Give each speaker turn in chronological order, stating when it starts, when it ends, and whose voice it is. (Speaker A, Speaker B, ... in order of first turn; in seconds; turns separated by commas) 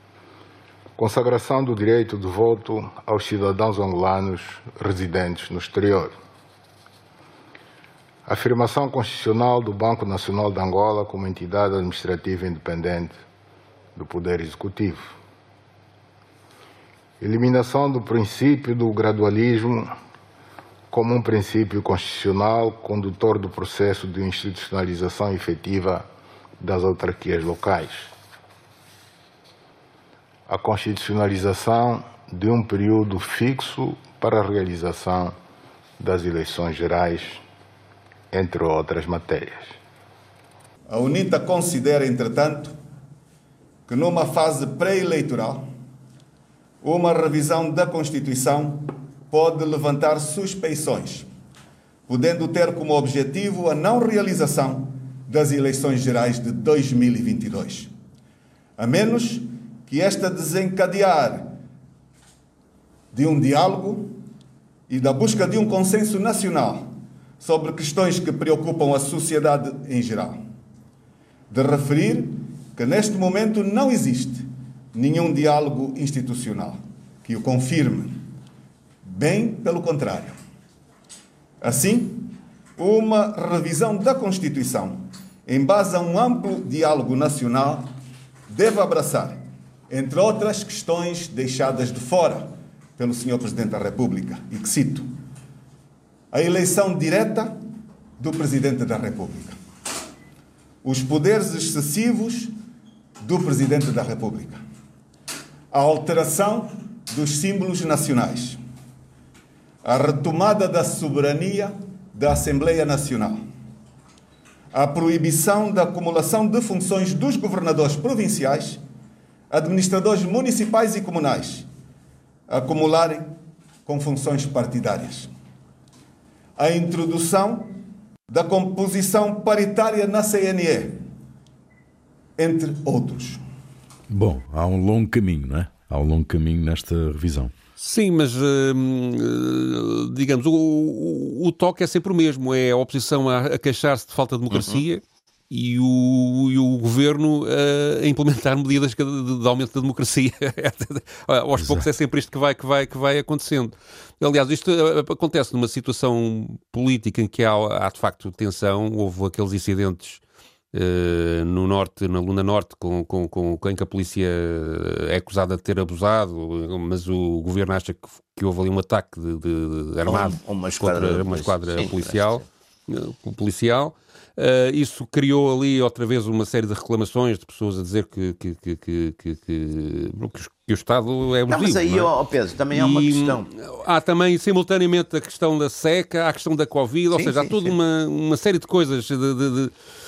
Speaker A: 1.0-6.2, Speaker A: 8.3-13.2, Speaker A: 13.9-15.1, Speaker A: 17.2-19.9, Speaker A: 20.9-26.1, Speaker A: 26.6-28.1, Speaker A: 30.5-35.4, Speaker A: 36.0-37.4, Speaker A: 38.3-39.7, Speaker B: 40.9-42.8, Speaker B: 43.9-45.6, Speaker B: 46.8-51.3, Speaker B: 52.1-57.9, Speaker B: 58.8-61.5, Speaker B: 63.1-64.1, Speaker B: 64.9-70.4, Speaker B: 71.5-78.2, Speaker B: 79.0-80.3, Speaker B: 81.6-87.9, Speaker B: 88.5-95.1, Speaker B: 96.3-97.6, Speaker B: 98.2-99.6, Speaker B: 100.8-102.5, Speaker B: 103.2-104.6, Speaker B: 105.7-108.6, Speaker B: 109.8-113.4, Speaker B: 114.7-118.8, Speaker B: 119.5-121.7, Speaker B: 122.5-123.3, Speaker B: 123.9-125.3, Speaker B: 126.6-127.8, Speaker B: 128.3-131.0, Speaker B: 132.4-133.4, Speaker C: 134.1-137.5, Speaker D: 137.8-160.2, Speaker E: 144.5-144.8, Speaker C: 151.6-151.9, Speaker D: 160.7-182.1, Speaker E: 170.1-172.4, Speaker E: 181.5-183.5, Speaker D: 182.7-189.7, Speaker E: 187.1-187.7